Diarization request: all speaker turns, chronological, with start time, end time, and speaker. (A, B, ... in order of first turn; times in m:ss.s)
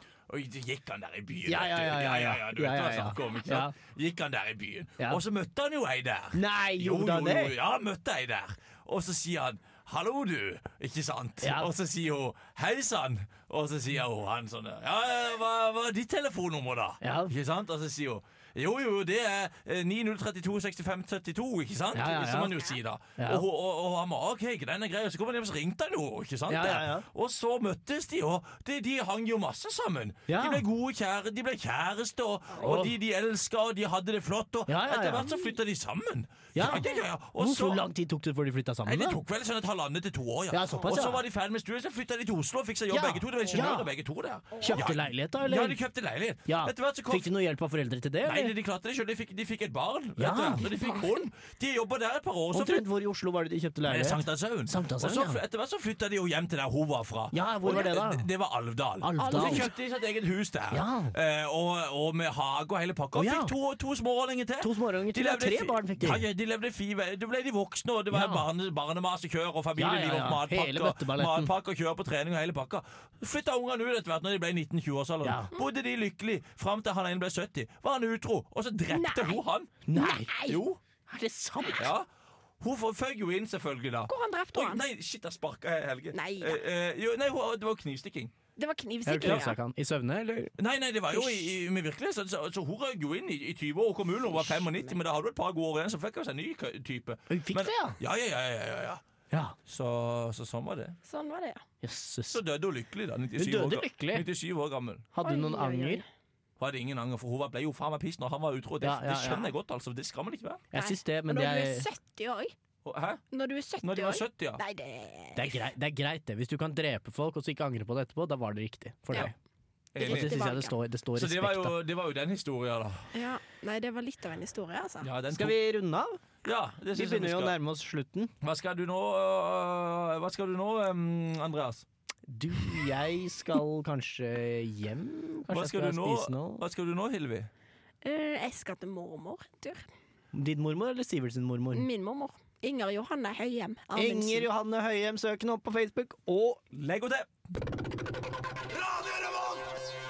0:00.3-0:37.8 A
0:01.5-0:03.7 B
0:06.3-0:07.5 B
0:11.4-0:11.7 B
0:17.0-0:17.3 B
0:21.9-0:23.4 B
0:26.5-0:27.0 B
0:30.3-0:30.6 B
0:32.5-0:33.0 B
0:34.7-0:35.3 B
0:35.2-0:35.5 C
0:36.5-0:39.2 B
0:36.6-0:37.0 C
0:38.8-0:47.3 A
0:40.5-0:41.2 B
0:42.9-0:43.9 B
0:44.5-0:44.8 C
0:44.5-0:45.8 B
0:46.4-0:48.5 B
0:48.2-0:52.9 A
0:50.2-0:50.7 B
0:50.7-0:51.1 C
0:52.5-0:55.4 B
0:53.8-1:19.8 A
0:57.3-0:58.3 B
0:59.0-0:59.7 B
0:59.2-0:59.7 C
1:00.7-1:01.1 B
1:03.1-1:03.5 B
1:04.6-1:06.2 B
1:08.1-1:08.5 B
1:09.8-1:11.5 B
1:15.2-1:15.5 B
1:18.9-1:19.4 C
1:19.9-1:20.3 B
1:19.9-1:20.6 C
1:20.4-1:20.8 A
1:21.1-1:21.9 B
1:21.8-1:22.1 A
1:22.6-1:28.3 A
1:24.1-1:24.8 C
1:26.1-1:26.6 C
1:28.6-1:29.6 C
1:29.0-1:30.5 B
1:29.2-1:29.5 A
1:30.6-1:39.0 A
1:34.3-1:35.0 C
1:37.3-1:38.0 B
1:39.3-1:39.6 B
1:39.7-1:41.0 A
1:41.0-1:41.6 C
1:41.8-1:42.4 B
1:42.3-1:45.1 A
1:43.3-1:44.3 B
1:45.1-1:46.0 B
1:45.2-1:46.0 C
1:46.6-1:50.6 A
1:48.8-1:49.5 B
1:50.7-1:51.8 B
1:50.7-1:52.5 C
1:52.8-1:53.2 A
1:53.3-1:55.5 C
1:53.8-1:54.6 A
1:55.3-1:59.3 B
1:59.9-2:00.6 A
2:00.0-2:00.7 C
2:00.0-2:01.7 B
2:01.2-2:03.1 A
2:03.1-2:05.1 C
2:05.0-2:05.6 A
2:05.3-2:06.2 B
2:06.4-2:07.5 A
2:06.9-2:08.3 B
2:08.4-2:11.8 A
2:12.3-2:16.6 B
2:15.5-2:17.5 A
2:18.0-2:19.9 C
2:20.3-2:21.9 B
2:21.7-2:24.5 C
2:23.9-2:26.6 B
2:26.7-2:27.4 A
2:28.7-2:29.7 A